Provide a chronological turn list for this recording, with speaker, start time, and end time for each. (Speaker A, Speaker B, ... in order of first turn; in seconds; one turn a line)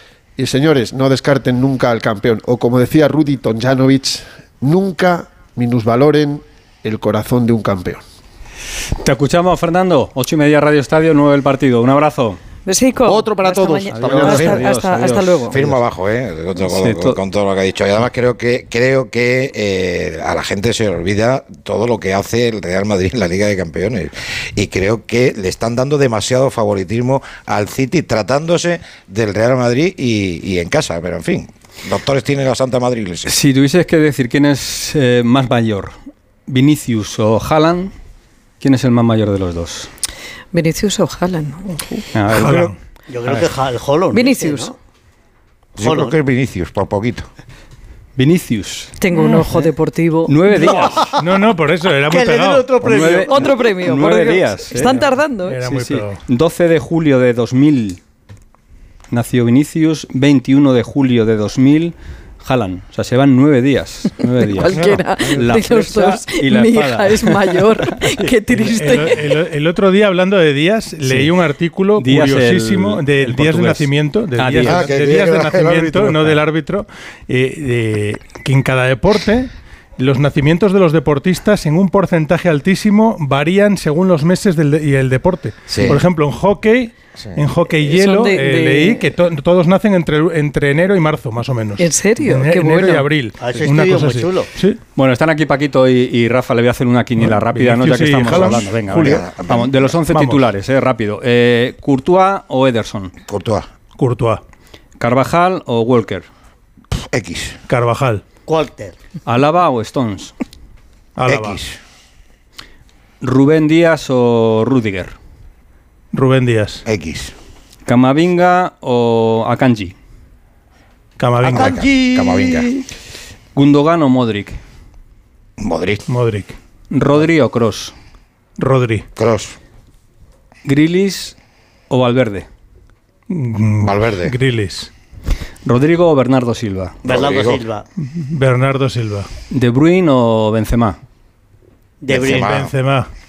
Speaker A: 0.4-8.0
Speaker B: 9.0-12.4
Speaker C: 12.7-15.6
Speaker A: 13.1-14.6
Speaker B: 13.9-15.8
Speaker D: 14.2-14.6
Speaker D: 15.1-33.3
Speaker B: 16.7-17.2
Speaker B: 33.3-36.0
Speaker B: 36.5-37.9
Speaker B: 38.6-39.9
Speaker C: 40.5-42.0
Speaker B: 42.1-42.7
Speaker E: 42.3-42.8
Speaker F: 43.1-44.7
Speaker C: 44.1-44.7
Speaker D: 45.8-47.3
Speaker F: 45.8-46.2
Speaker B: 48.2-48.9
Speaker C: 49.0-50.8
Speaker E: 49.1-49.5
Speaker B: 50.3-51.1
Speaker E: 50.6-53.0
Speaker F: 52.1-53.5
Speaker B: 52.8-55.1
Speaker C: 53.1-55.6
Speaker E: 55.0-56.2
Speaker B: 55.6-58.0
Speaker B: 59.1-67.6
Speaker C: 64.5-69.3
Speaker D: 64.7-65.5
Speaker E: 68.6-94.8
Speaker B: 72.0-74.8
Speaker D: 74.6-76.4
Speaker D: 85.7-86.0
Speaker C: 87.8-89.1
Speaker C: 91.8-93.1
Speaker F: 93.4-94.5
Speaker B: 95.0-103.1
Speaker E: 97.2-99.4
Speaker D: 99.0-99.9
Speaker E: 100.1-100.5
Speaker D: 103.3-103.7
Speaker E: 104.0-104.4
Speaker B: 105.0-106.3
Speaker D: 107.0-107.6
Speaker E: 107.7-108.2
Speaker F: 108.5-109.0
Speaker B: 109.3-110.3
Speaker E: 111.2-111.6
Speaker D: 111.3-111.8
Speaker B: 113.2-115.2
Speaker E: 116.1-116.8
Speaker D: 116.9-117.3
Speaker B: 117.9-119.9
Speaker E: 121.2-122.1
Speaker D: 121.4-122.7
Speaker B: 123.5-124.6
Speaker D: 125.6-126.0
Speaker E: 126.1-126.5
Speaker B: 126.9-127.9
Speaker E: 128.6-129.1
Speaker D: 129.2-129.6
Speaker B: 130.7-131.3
Speaker B: 131.9-132.5
Speaker E: 133.3-134.9
Speaker D: 133.8-134.3
Speaker B: 135.7-137.0
Speaker F: 137.0-137.8
Speaker D: 137.1-137.6
Speaker E: 138.0-139.3
Speaker B: 139.5-141.0
Speaker F: 142.0-142.5
Speaker D: 142.1-142.7
Speaker E: 142.1-143.1